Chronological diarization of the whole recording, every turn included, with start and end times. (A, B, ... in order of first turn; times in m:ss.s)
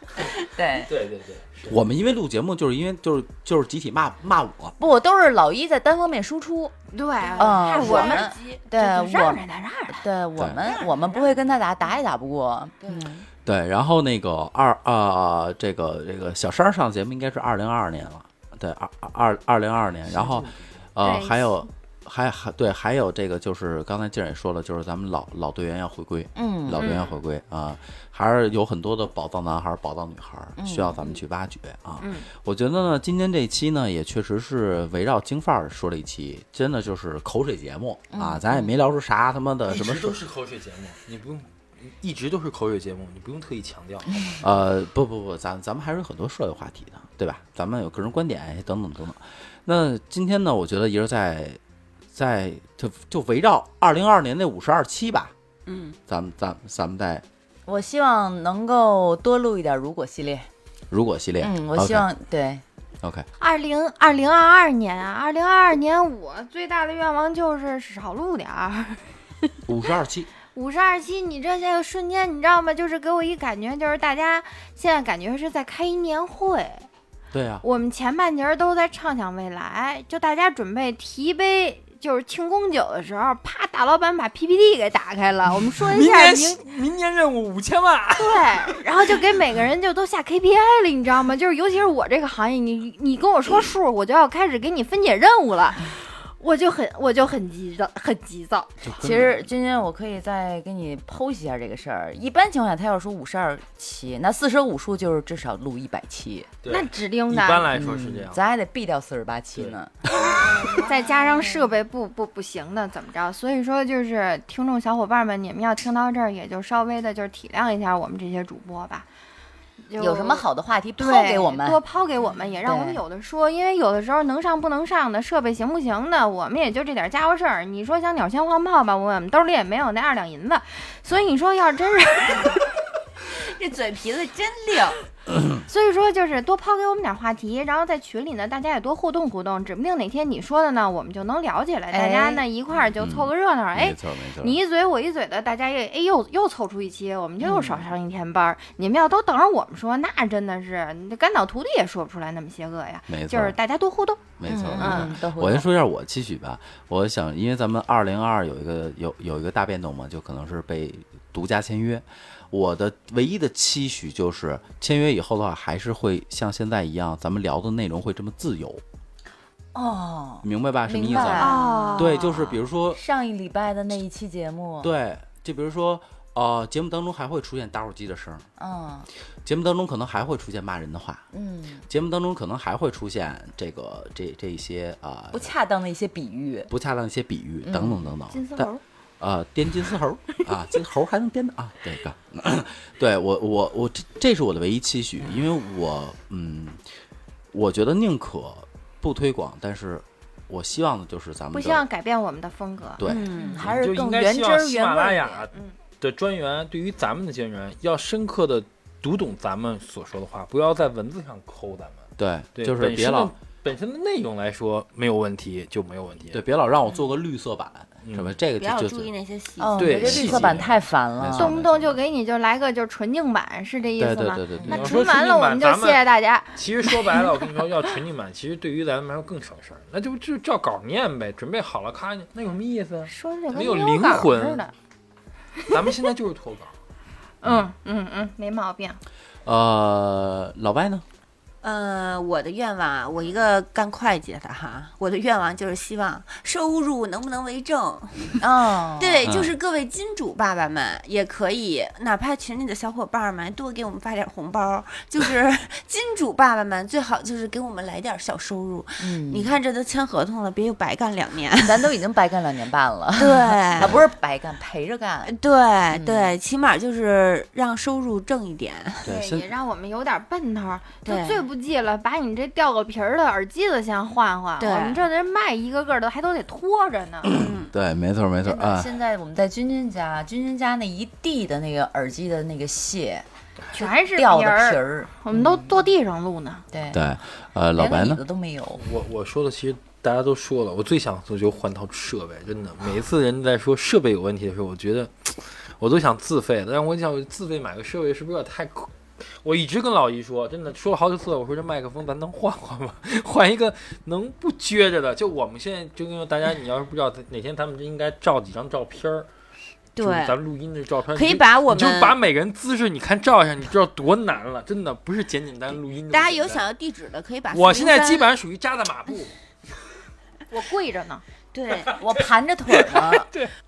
0:00.4-0:00.9 A
0:00.8-0:01.8 B
0:01.7-0:04.8 C
0:04.8-0:06.7 A
0:06.9-0:10.0 D
0:07.2-0:08.6 E
0:07.4-0:13.1 A
0:10.6-0:11.4 E
0:12.8-0:13.2 E
0:13.4-0:40.2 C
0:20.2-0:20.6 B
0:21.0-0:21.7 D
0:26.4-0:26.9 A
0:26.8-0:27.1 D
0:30.6-0:31.0 A
0:32.0-0:32.3 D
0:38.1-0:38.7 A
0:39.7-0:44.4 B
0:44.4-0:51.6 C
0:52.1-0:55.3 C
0:55.7-0:56.0 E
0:56.1-0:57.2 C
0:57.7-1:00.5 A
1:00.9-1:02.1 C
1:01.4-1:02.6 A
1:03.0-1:03.3 C
1:03.4-1:09.1 D
1:09.7-1:10.3 C
1:10.5-1:16.9 D
1:17.3-1:17.6 C
1:17.6-1:26.6 D
1:25.8-1:29.2 B
1:28.2-1:38.9 D
1:38.8-1:39.4 C
1:39.0-1:46.5 A
1:46.6-1:48.4 B
1:46.7-1:47.8 D
1:47.7-1:49.9 A
1:50.2-1:59.1 D
1:50.3-1:51.5 E
1:59.9-2:00.5 D
2:00.0-2:01.8 A
2:01.0-2:12.7 D
2:02.6-2:03.0 A
2:13.2-2:15.0 E
2:15.3-2:15.6 C
2:15.7-2:35.1 D
2:21.9-2:22.4 A
2:23.0-2:24.6 C
2:27.4-2:27.9 A
2:33.1-2:33.6 C
2:34.4-2:48.8 C
2:34.4-2:35.7 A
2:49.7-2:52.4 A
2:50.4-2:53.0 C
2:51.2-2:52.4 D
2:52.9-2:54.9 A
2:54.8-2:58.5 C
2:58.6-2:59.1 A
2:59.4-3:01.2 C
3:01.3-3:01.9 A
3:01.9-3:05.5 C
3:05.3-3:06.7 A
3:06.7-3:16.8 C
3:07.6-3:08.0 A
3:08.3-3:08.8 D
3:17.5-3:21.8 C
3:21.5-3:23.0 D
3:23.0-3:23.3 C
3:23.0-3:23.6 E
3:23.4-3:25.5 A
3:23.6-3:36.4 B
3:32.2-3:33.3 C
3:36.3-3:39.1 C
3:38.0-3:38.3 B
3:38.6-3:40.0 E
3:39.6-3:41.6 A
3:39.8-3:40.8 B
3:39.9-3:42.0 C
3:41.4-3:47.4 D
3:44.0-3:44.8 C
3:44.7-3:54.6 B
3:53.1-3:54.7 D
3:55.7-3:56.7 B
3:57.4-3:59.0 D
3:59.5-4:01.0 C
4:01.6-4:22.0 E
4:08.4-4:09.3 A
4:09.2-4:09.5 C
4:19.0-4:19.5 A
4:21.6-4:25.4 A
4:23.2-4:23.9 E
4:23.8-4:24.1 C
4:25.3-4:29.1 E
4:25.9-4:26.4 A
4:29.0-4:29.5 C
4:29.1-4:37.3 D
4:31.0-4:31.5 E
4:34.6-4:35.1 E
4:37.3-4:37.7 E
4:37.3-4:38.9 C
4:38.4-4:43.2 A
4:43.7-4:46.6 D
4:43.8-4:45.7 A
4:46.7-4:47.0 A
4:46.9-4:48.2 C
4:47.8-4:48.8 A
4:48.8-5:09.3 B
5:10.0-5:10.4 E
5:10.0-5:16.7 B
5:11.1-5:12.2 E
5:16.1-5:18.3 E
5:17.5-5:19.4 B
5:20.5-5:21.2 D
5:21.5-5:22.0 E
5:22.0-5:23.3 A
5:22.7-5:23.5 B